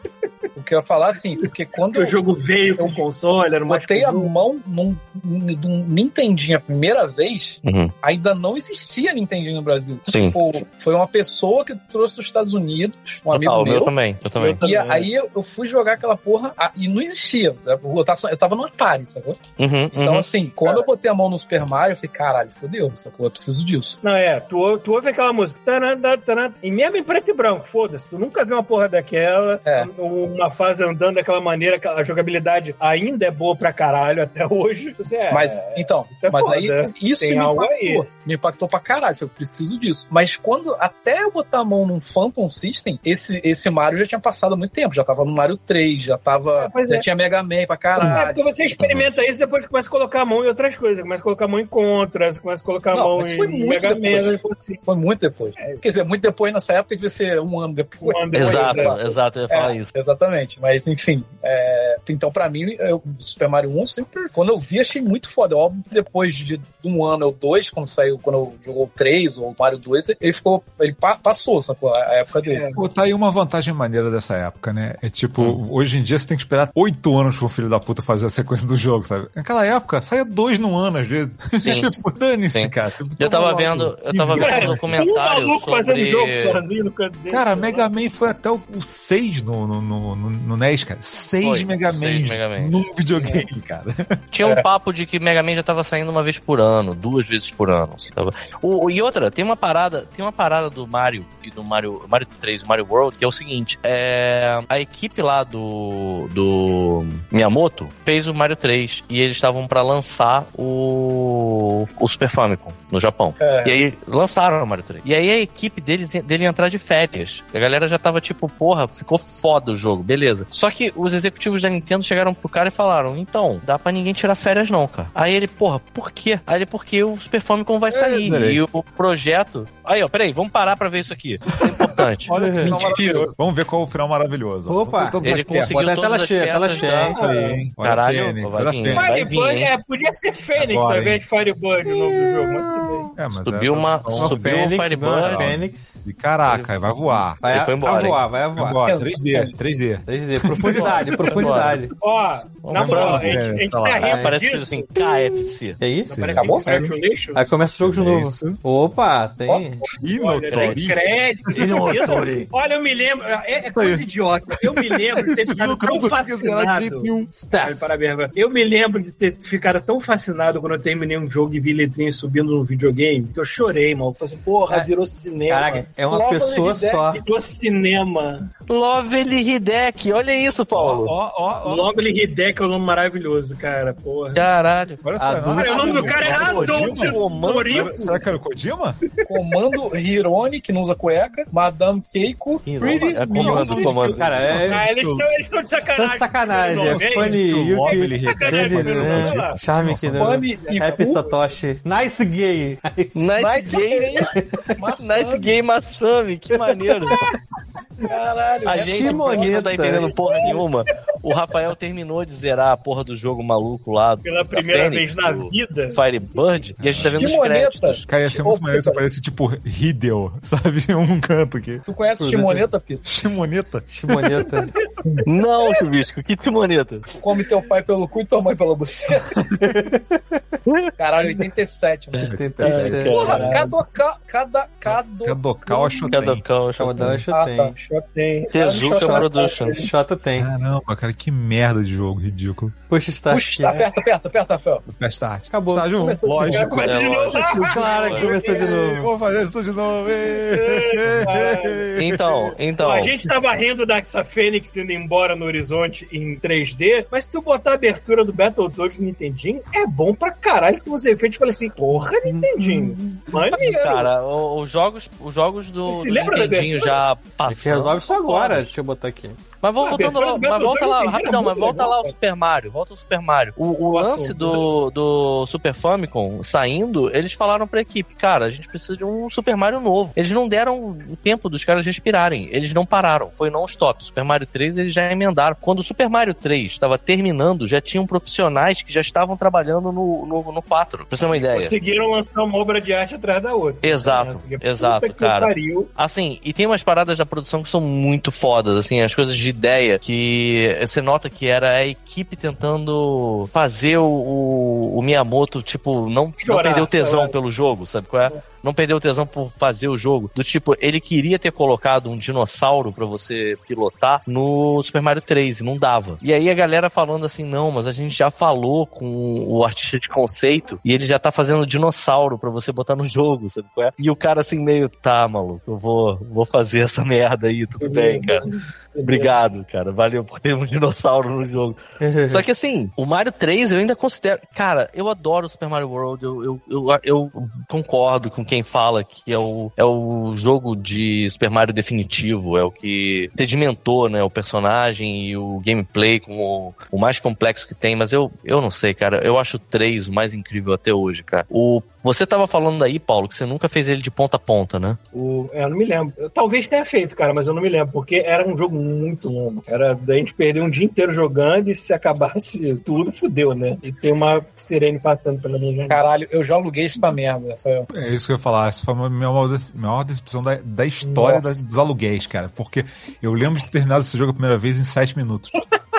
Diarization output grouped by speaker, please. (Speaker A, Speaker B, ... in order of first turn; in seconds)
Speaker A: 0.6-2.2, 2.8-3.0, 3.7-13.9, 14.6-19.4, 19.9-24.0, 29.6-29.9, 35.3-48.4, 52.9-72.7, 93.1-93.5, 113.4-113.8, 132.6-133.3, 148.8-149.6, 156.3-156.9, 176.1-177.1, 189.3-194.2, 200.2-201.2, 203.3-205.6, 208.0-209.5, 217.0-219.0, 221.9-223.1, 227.2-229.4, 231.0-232.3, 233.1-236.2, 237.3-237.8, 238.6-239.5, 243.3-244.8, 246.0-246.9, 263.4-263.7, 365.9-367.9, 371.0-371.6
Speaker B: 1.9-4.3, 14.4-15.1, 24.0-38.1, 46.6-47.1, 48.0-54.8, 58.0-59.1, 72.5-72.9, 84.3-88.2, 137.0-137.6, 138.9-143.1, 150.8-151.1, 151.9-154.9, 156.1-157.5, 160.1-175.8, 177.1-178.5, 181.6-184.5, 185.5-188.2, 194.6-199.6, 200.4-201.6, 214.2-216.0, 233.0-233.8, 237.7-239.9, 246.4-248.9, 250.1-251.9, 252.8-264.1, 265.9-267.0, 269.8-272.1, 273.9-274.7, 291.3-295.9, 306.4-307.3, 327.8-329.4, 355.1-366.0
Speaker C: 7.6-7.9, 10.1-10.4, 13.3-14.6, 19.6-20.3, 58.3-59.9, 81.6-81.9, 82.5-86.6, 91.4-92.8, 94.3-132.3, 135.2-137.2, 137.8-139.7, 143.4-145.5, 147.4-148.2, 151.2-151.8, 152.7-153.4, 154.0-155.8, 160.5-160.8, 178.7-181.1, 184.3-185.0, 186.0-188.0, 192.7-194.4, 203.1-204.3, 205.0-207.2, 208.7-218.0, 225.2-227.1, 230.7-230.9, 232.2-233.6, 236.1-237.2, 238.5-239.8, 246.8-248.3, 252.0-253.1, 263.5-268.7, 269.6-291.7, 293.8-328.5, 329.0-355.0
Speaker D: 72.8-85.1, 87.3-94.1, 127.9-128.6, 131.6-135.8, 137.1-139.1, 140.5-141.2, 143.2-147.4, 148.5-151.6, 152.7-154.2, 156.1-156.7, 157.8-158.6, 159.8-162.2, 163.6-167.3, 180.7-181.9, 185.0-189.0, 193.4-195.3, 196.7-200.4, 216.7-217.4, 218.1-221.9, 223.0-223.9, 232.2-233.3, 234.8-236.4, 237.0-237.2, 240.4-242.8, 244.9-252.5, 367.9-375.6
Speaker E: 132.3-132.8, 134.7-137.2, 141.8-143.1, 144.2-146.0, 147.4-148.8, 150.1-151.9, 154.0-154.3, 155.0-156.2, 157.3-159.8, 161.5-162.5, 167.3-167.9, 175.5-177.2, 185.2-186.2, 194.2-194.8, 195.9-203.3, 206.5-207.3, 208.7-210.2, 222.2-222.7, 223.9-224.7, 229.6-230.6, 232.3-233.4, 236.8-237.7, 238.8-240.5, 242.9-243.8, 245.5-246.7, 247.4-249.1, 267.5-269.4, 332.0-332.4